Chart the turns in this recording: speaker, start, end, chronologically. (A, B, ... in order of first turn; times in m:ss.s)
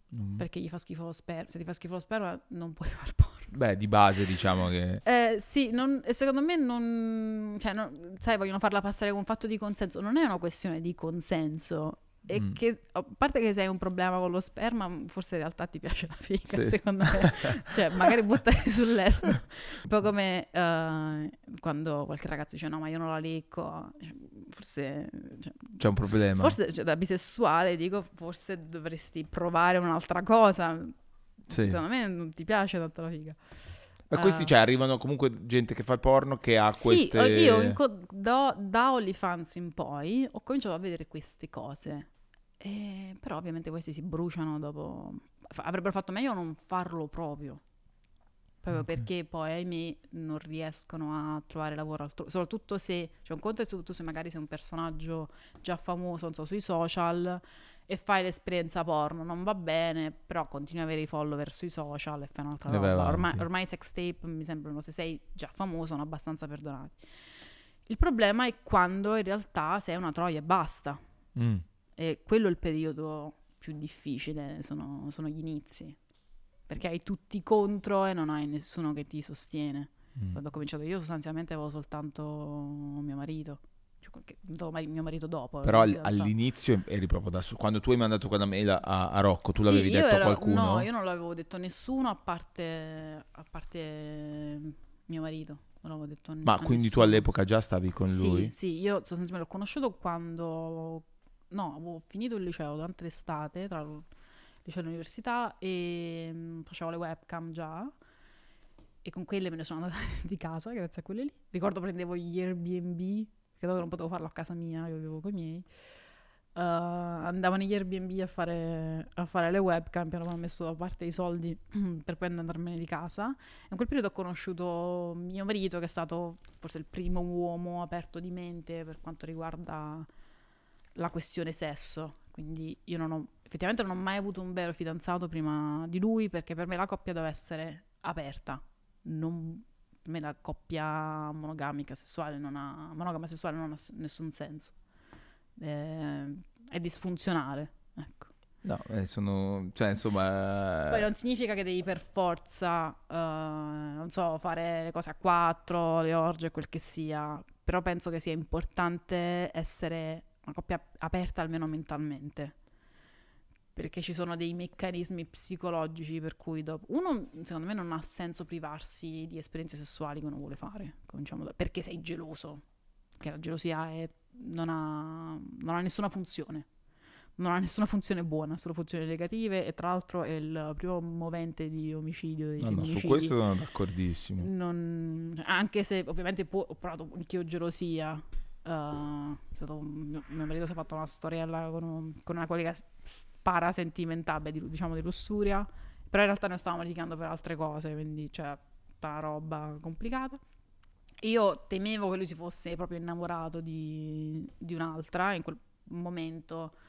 0:00.1-0:00.4 A
0:00.4-0:03.6 B
0:03.5-0:05.0 A
0:05.0-0:25.8 B
0:16.5-0:18.2 A
0:25.8-0:26.6 A
0:26.4-0:33.4 B
0:31.5-0:31.8 A
0:34.1-0:37.8 A
0:34.1-0:34.5 B
0:36.7-0:42.1 B
0:42.6-0:47.6 B
0:48.6-1:07.0 B
0:48.7-0:49.0 A
1:02.7-1:03.4 A
1:07.8-1:11.0 B
1:11.3-1:11.6 A
1:12.0-1:16.0 B
1:16.7-1:26.3 B
1:25.6-1:30.9 A
1:29.6-1:37.2 B
1:36.4-1:38.5 A
1:38.0-1:44.1 B
1:44.6-1:47.9 B
1:49.0-1:55.6 B
1:56.5-2:10.1 B
2:11.0-2:24.7 B
2:25.6-2:28.3 B
2:28.6-2:31.1 A
2:30.9-2:42.5 B
2:43.7-2:52.6 B
2:53.2-2:56.7 B
2:57.4-3:03.4 B
3:02.6-3:04.5 A
3:04.4-3:20.4 B
3:21.2-3:26.7 B